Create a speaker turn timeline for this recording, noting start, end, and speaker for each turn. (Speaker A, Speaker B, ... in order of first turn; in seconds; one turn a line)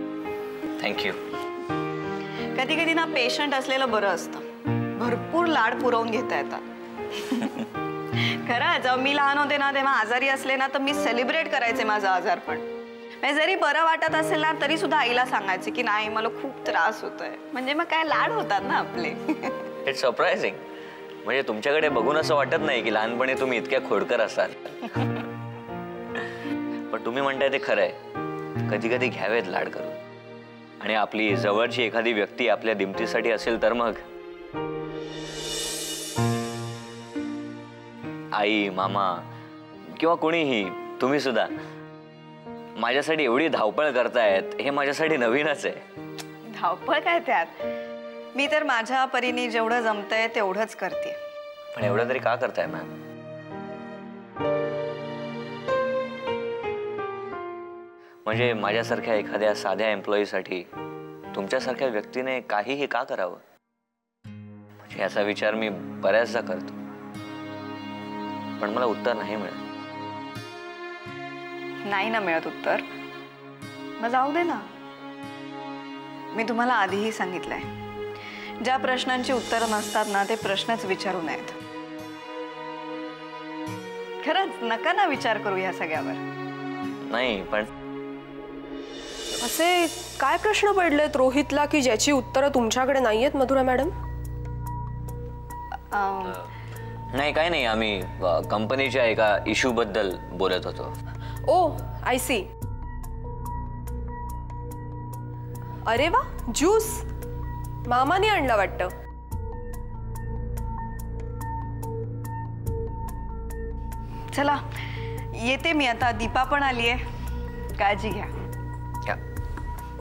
Speaker A: 0.8-1.2
Speaker B: 2.5-4.4
Speaker B: 5.0-12.7
Speaker B: 13.2-19.7
Speaker A: 19.8-20.6
Speaker A: 21.2-25.2
Speaker A: 26.9-28.0
Speaker A: 28.6-30.0
Speaker A: 30.8-34.0
Speaker A: 38.3-39.3
Speaker A: 39.8-41.5
Speaker A: 42.8-45.8
Speaker B: 46.5-47.5
Speaker B: 48.3-51.1
Speaker A: 51.7-52.9
Speaker A: 58.2-60.7
Speaker A: 61.3-63.4
Speaker A: 64.8-66.8
Speaker A: 68.6-69.6
Speaker B: 71.8-72.8
Speaker B: 74.0-74.6
Speaker B: 76.3-77.7
Speaker B: 78.6-81.5
Speaker B: 84.2-86.2
Speaker A: 87.0-87.7
Speaker C: 89.4-93.9
Speaker B: 95.9-96.4
Speaker A: 97.1-100.9
Speaker C: 101.5-102.4
Speaker C: 105.9-107.0
Speaker C: 107.9-108.9
Speaker B: 114.3-114.6
Speaker B: 115.4-117.0
Speaker B: 117.8-118.3